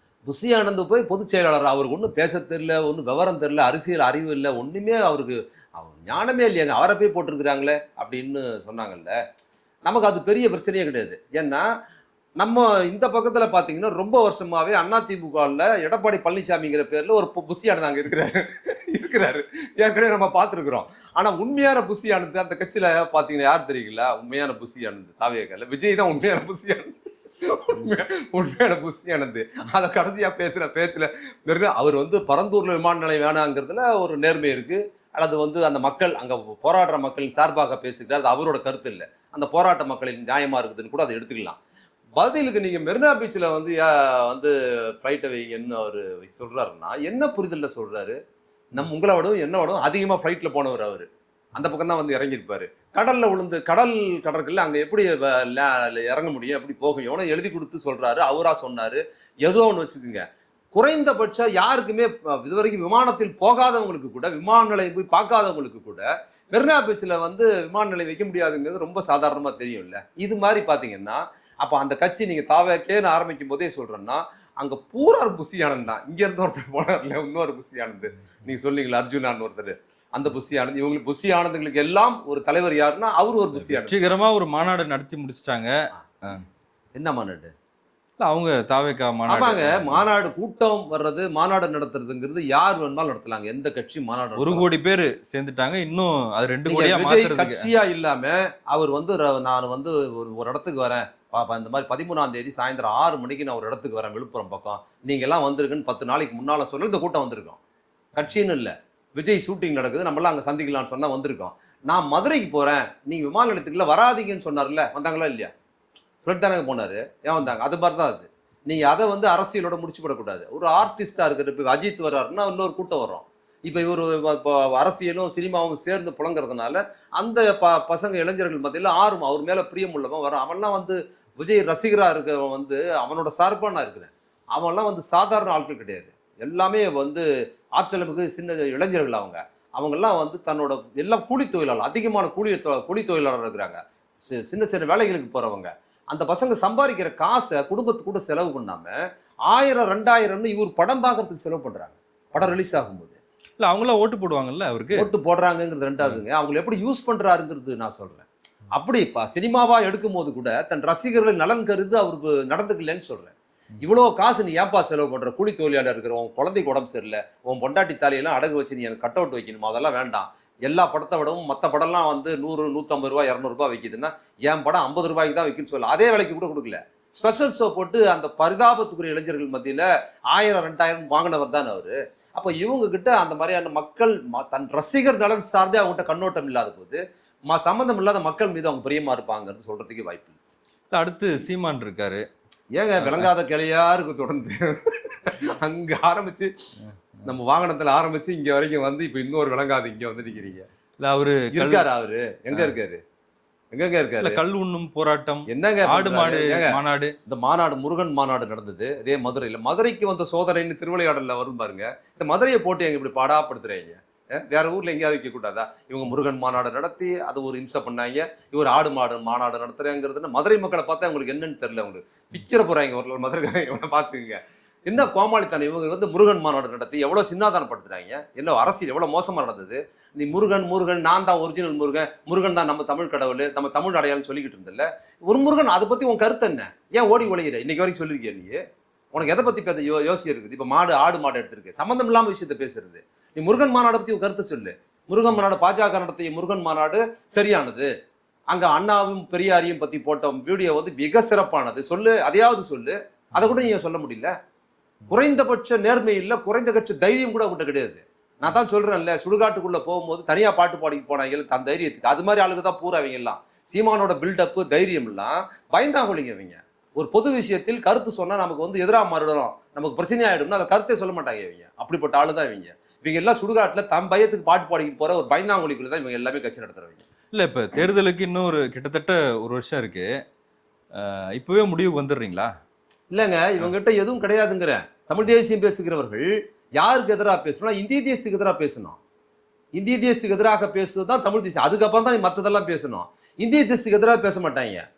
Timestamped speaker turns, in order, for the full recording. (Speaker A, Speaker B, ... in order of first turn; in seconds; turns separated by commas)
Speaker A: 0.3-9.2, Speaker A: 9.9-11.7, Speaker A: 12.4-41.6, Speaker A: 42.2-48.2, Speaker A: 48.7-84.0, Speaker B: 83.6-86.4, Speaker A: 87.0-87.5, Speaker B: 88.2-90.0, Speaker A: 89.3-94.7, Speaker B: 94.4-97.7, Speaker A: 96.7-107.6, Speaker A: 108.2-115.5, Speaker A: 116.2-137.2, Speaker A: 137.8-148.9, Speaker A: 149.5-153.2, Speaker B: 153.6-155.1, Speaker A: 154.9-190.4, Speaker B: 190.9-192.2, Speaker A: 192.8-196.5, Speaker B: 193.0-193.3, Speaker A: 197.2-200.7, Speaker B: 201.0-201.9, Speaker A: 201.5-203.0, Speaker A: 203.7-204.4, Speaker B: 204.2-207.2, Speaker A: 205.5-238.6, Speaker A: 239.1-247.9, Speaker A: 248.5-254.3, Speaker A: 255.1-277.0, Speaker B: 277.3-280.1, Speaker B: 280.9-282.5, Speaker A: 283.1-289.0, Speaker A: 289.8-294.9